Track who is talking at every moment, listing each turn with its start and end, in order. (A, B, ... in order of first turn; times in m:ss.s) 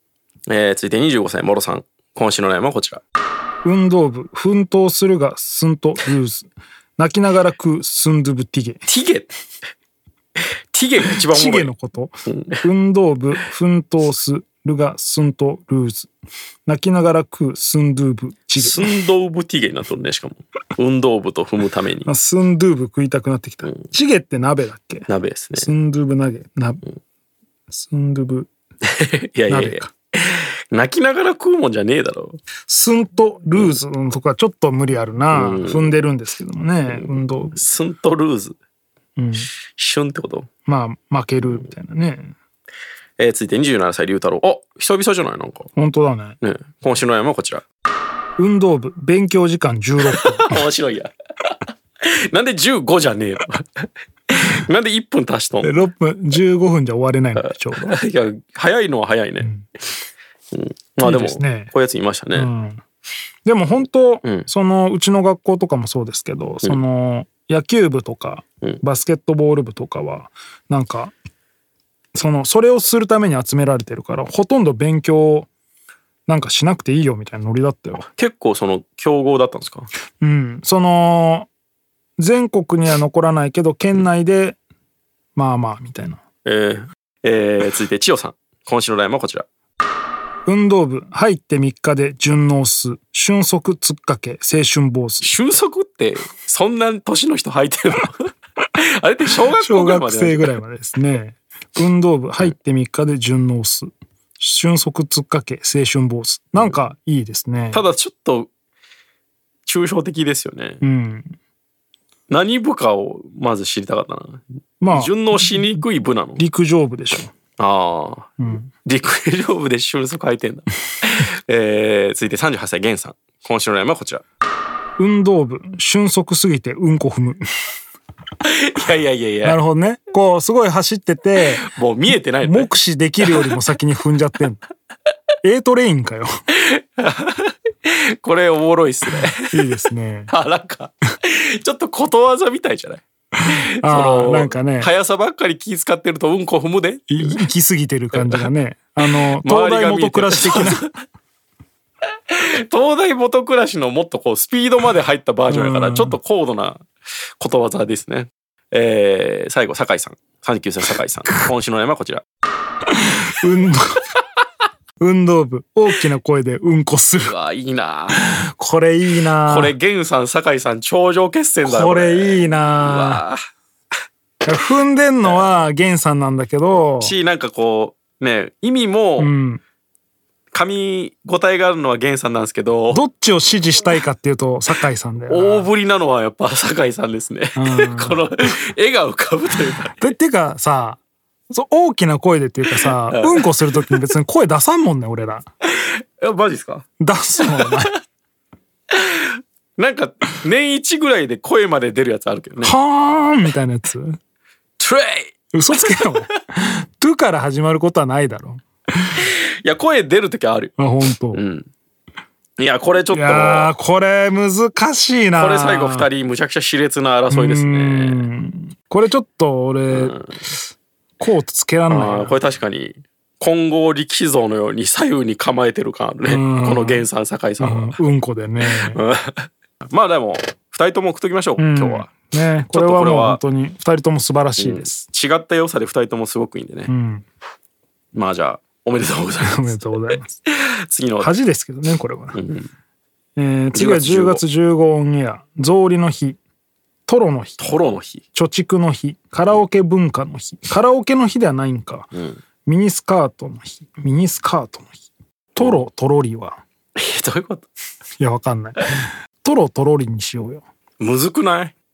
0:00.5-0:03.0 A
0:03.6-0:08.8 B
0:08.9-0:09.3 A
0:10.7-0:11.7 A
0:11.3-0:16.1 B
0:12.3-0:12.6 A
0:16.7-0:18.9 B
0:18.6-0:22.1 A
0:22.0-0:26.9 B
0:25.1-0:25.7 A
0:27.7-0:28.5 B
0:28.8-0:32.4 A
0:29.5-0:29.9 B
0:32.7-0:37.6 B
0:35.3-0:36.0 A
0:36.9-0:38.6 A
0:39.2-0:39.5 B
0:39.7-0:40.5 A
0:40.7-0:42.4 B
0:43.2-0:45.7 A
0:45.8-0:46.4 B
0:46.4-0:47.6 A
0:48.4-0:50.6 B
0:50.1-0:55.8 A
0:55.6-0:58.0 B
0:57.4-0:59.6 A
0:59.4-0:59.7 B
1:00.5-1:02.5 A
1:01.0-1:01.7 B
1:02.3-1:02.8 B
1:03.4-1:11.1 B
1:04.2-1:04.5 A
1:12.1-1:15.5 B
1:16.3-1:18.1 B
1:18.1-1:19.9 A
1:20.2-1:21.5 B
1:22.2-1:24.6 B
1:25.4-1:26.2 B
1:26.4-1:29.5 A
1:30.5-1:35.3 B
1:35.2-1:38.2 A
1:39.0-1:40.6 A
1:39.6-1:47.8 B
1:47.7-1:48.5 A
1:49.7-1:50.8 A
1:50.8-1:51.4 B
1:52.3-1:56.4 A
1:54.8-1:55.8 B
1:56.4-1:57.3 B
1:57.6-2:04.2 A
1:58.4-1:58.7 B
2:05.0-2:07.4 B
2:08.4-2:09.6 A
2:09.4-2:11.6 B
2:11.6-2:13.6 A
2:12.4-2:14.6 B
2:15.4-2:16.3 B
2:16.6-2:19.8 A
2:19.5-2:20.3 B
2:20.3-2:23.0 A
2:23.4-2:24.9 B
2:23.5-2:27.5 A
2:27.1-2:30.9 B
2:28.1-2:28.5 A
2:29.0-2:30.9 A
2:32.3-2:36.8 A
2:35.5-2:36.2 B
2:37.4-2:42.2 A
2:43.2-2:44.0 B
2:45.0-2:47.3 B
2:47.2-2:48.2 A
2:48.1-2:49.8 B
2:49.4-2:53.4 A
2:51.6-2:53.2 B
2:54.4-2:57.2 B
2:55.2-2:55.5 A
2:56.9-2:59.3 A
2:59.2-2:59.6 B
3:00.5-3:03.0 A
3:02.9-3:05.7 B
3:05.3-3:10.0 A
3:07.6-3:08.3 B
3:10.0-3:15.5 B
3:12.7-3:14.0 A
3:15.8-3:16.9 A
3:17.0-3:18.0 B
3:17.4-3:17.8 A
3:18.9-3:22.7 A
3:22.6-3:24.2 B
3:24.8-3:26.1 A
3:25.5-3:28.6 B
3:29.2-3:30.7 A
3:30.8-3:31.4 B
3:31.3-3:31.7 A
3:32.6-3:33.7 A
3:33.1-3:36.1 B
3:35.4-3:38.3 A
3:37.3-3:40.2 B
3:39.9-3:40.2 A
3:41.2-3:42.4 B
3:41.9-3:48.0 A
3:46.2-3:47.1 B
3:47.6-3:49.0 B
3:48.6-3:52.1 A
3:51.6-3:55.1 B
3:52.7-3:53.4 A
3:54.6-3:56.9 A
3:56.9-3:57.3 B
3:58.1-4:01.4 A
3:59.4-4:00.4 B
4:01.2-4:02.4 B
4:02.3-4:02.7 A
4:03.4-4:06.4 B
4:03.7-4:04.4 A
4:07.1-4:07.7 B
4:07.6-4:08.2 A
4:08.3-4:12.1 B
4:12.1-4:12.4 A
4:12.6-4:15.0 B
4:15.5-4:16.6 B
4:17.0-4:17.7 A
4:18.2-4:20.6 B
4:21.0-4:21.7 A